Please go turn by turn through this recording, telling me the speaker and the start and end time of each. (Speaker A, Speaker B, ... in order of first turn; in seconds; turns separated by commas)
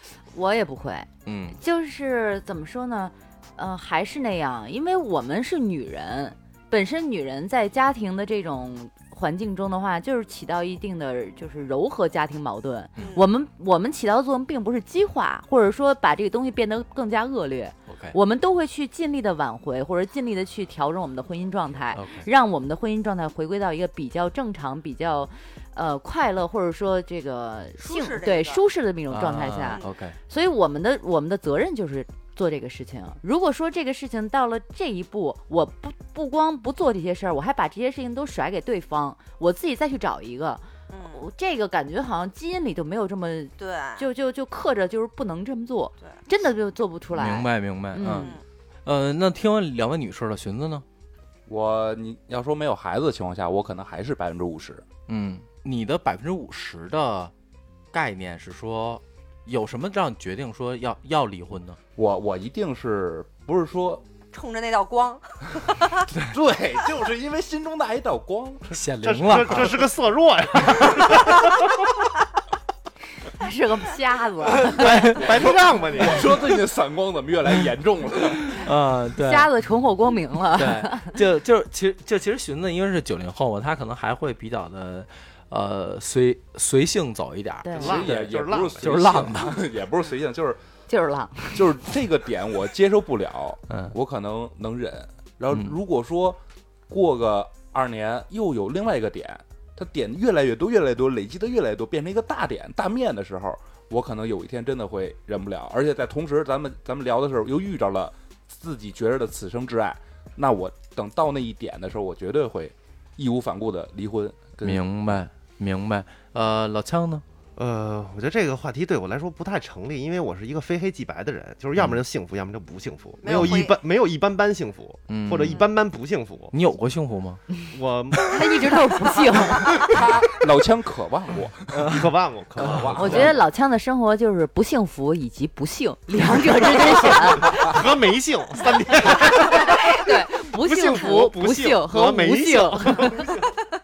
Speaker A: 0.3-48.4, Speaker B: 1.2-1.6, Speaker C: 13.0-13.3, Speaker B: 17.9-18.1, Speaker B: 21.9-22.3, Speaker C: 27.8-28.6, Speaker B: 29.1-30.2, Speaker C: 40.9-41.2, Speaker C: 43.6-44.0, Speaker B: 47.1-50.8, Speaker C: 48.1-48.4, Speaker D: 51.5-54.9, Speaker B: 55.1-57.3, Speaker B: 57.9-61.8, Speaker D: 62.0-64.0, Speaker C: 64.3-66.0, Speaker D: 66.3-68.7, Speaker B: 68.7-69.9, Speaker E: 69.0-71.9, Speaker A: 73.3-75.0, Speaker B: 74.6-75.4, Speaker E: 74.7-76.4, Speaker D: 75.9-78.6, Speaker B: 78.5-79.5, Speaker A: 79.2-81.1, Speaker B: 80.5-89.6, Speaker A: 87.6-88.0, Speaker E: 87.8-89.3, Speaker D: 87.8-90.6, Speaker A: 90.9-91.8, Speaker D: 91.5-114.8, Speaker B: 95.5-95.8, Speaker B: 114.6-117.2, Speaker E: 117.6-126.5, Speaker C: 123.2-123.8, Speaker B: 123.3-123.6, Speaker B: 125.1-125.6, Speaker B: 126.5-127.4, Speaker E: 127.7-128.7, Speaker A: 128.3-129.9, Speaker D: 129.7-131.9, Speaker B: 131.7-133.0, Speaker E: 131.8-133.3, Speaker D: 132.6-133.3, Speaker A: 132.9-137.7, Speaker E: 137.1-143.5, Speaker A: 139.2-143.3